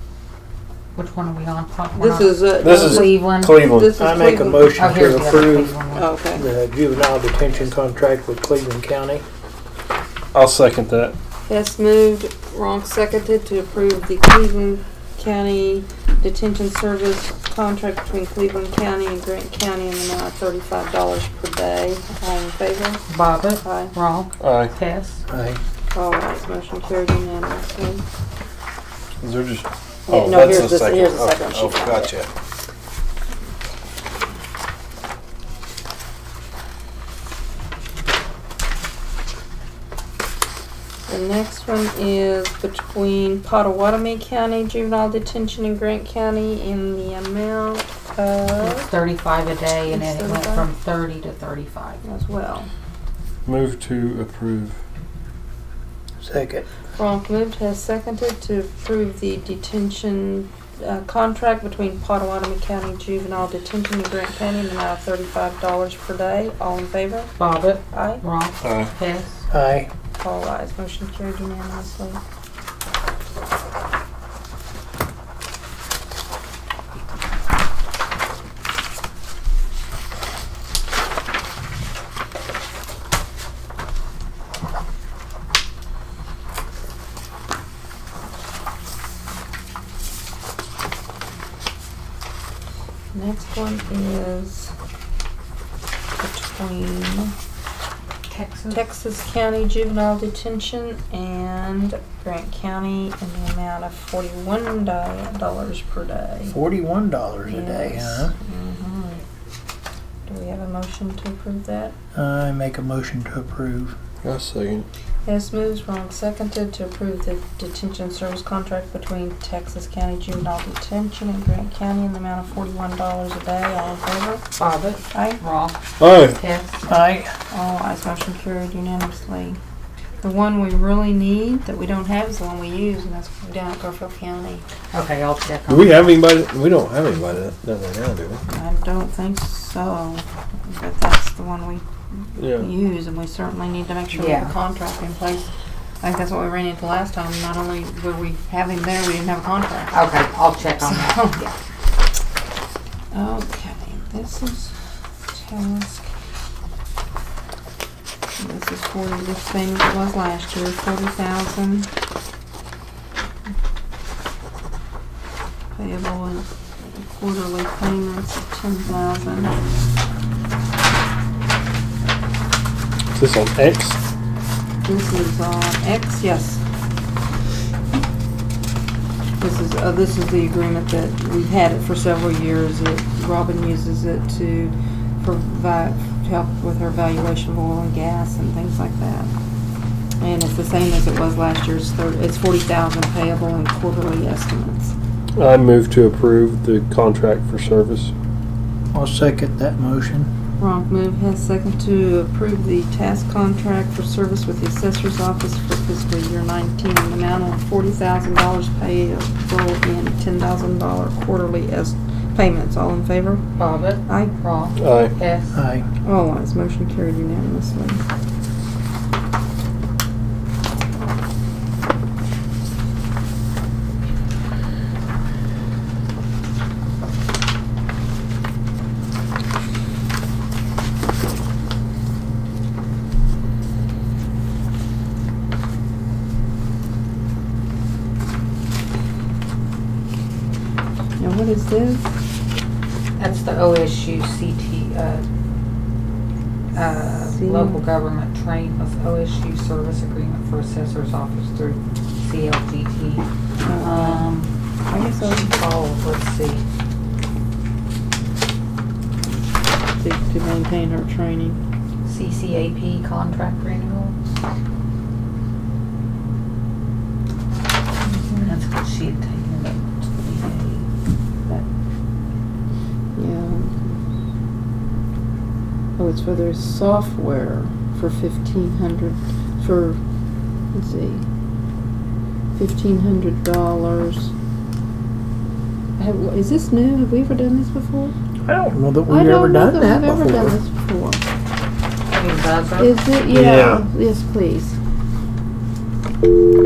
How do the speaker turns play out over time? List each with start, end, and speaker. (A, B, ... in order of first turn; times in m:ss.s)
0:01.0-0:03.6 A
0:02.0-0:04.8 B
0:02.6-0:04.0 C
0:04.0-0:05.7 D
0:04.7-0:06.0 A
0:05.9-0:06.5 B
0:06.4-0:09.2 D
0:10.3-0:11.2 C
0:11.5-0:23.1 B
0:23.1-0:25.2 A
0:23.6-0:23.9 B
0:24.4-0:24.7 C
0:25.3-0:25.6 D
0:25.9-0:28.0 B
0:29.2-0:32.3 C
0:30.1-0:32.1 B
0:33.4-0:34.3 B
0:41.1-0:48.9 B
0:48.6-0:52.0 A
0:49.9-0:50.7 B
0:52.0-0:52.7 B
0:53.5-0:54.8 C
0:56.2-0:56.7 D
0:57.0-1:07.3 B
1:07.4-1:09.4 A
1:07.9-1:08.2 B
1:08.6-1:08.9 C
1:09.5-1:09.9 D
1:10.2-1:12.2 B
1:33.1-1:34.7 B
1:36.2-1:37.3 B
1:38.3-1:38.8 A
1:38.7-1:46.6 B
1:46.5-1:48.3 D
1:47.5-1:49.2 B
1:50.3-1:51.9 B
1:52.1-1:54.0 D
1:54.2-1:54.9 C
1:55.3-2:04.4 B
2:04.6-2:06.8 A
2:05.1-2:05.4 B
2:06.0-2:06.4 C
2:06.9-2:07.3 D
2:07.5-2:09.6 B
2:10.2-2:14.6 B
2:14.9-2:16.2 A
2:15.7-2:18.4 C
2:18.5-2:21.8 B
2:22.4-2:22.7 C
2:22.5-2:25.5 B
2:24.1-2:24.6 A
2:26.0-2:30.0 B
2:29.9-2:31.5 A
2:30.8-2:31.4 B
2:33.1-2:34.7 B
2:35.3-2:36.1 B
2:38.4-2:41.9 B
2:45.7-2:49.6 B
2:53.1-2:54.0 C
2:54.8-2:56.6 B
2:59.4-3:09.3 B
3:10.2-3:14.9 B
3:15.4-3:18.1 C
3:18.9-3:20.3 D
3:20.6-3:33.4 B
3:33.6-3:35.6 A
3:34.1-3:34.3 B
3:34.8-3:35.1 C
3:35.5-3:35.8 D
3:36.0-3:38.0 B
4:01.2-4:02.1 B
4:03.2-4:05.2 A
4:06.7-4:13.3 A
4:07.3-4:07.8 B
4:13.6-4:14.3 B
4:13.8-4:16.6 A
4:14.9-4:15.5 B
4:20.0-4:21.6 B
4:22.0-4:24.2 A
4:28.0-4:28.5 B
4:28.4-4:30.9 A
4:33.2-4:34.0 B
4:36.0-4:40.0 B
4:40.7-4:41.2 B
4:42.6-4:44.3 B
4:46.0-4:48.1 B
4:48.5-4:50.6 D
4:49.1-4:51.2 B
4:52.1-4:53.0 A
4:52.8-4:54.8 B
4:53.3-4:53.8 C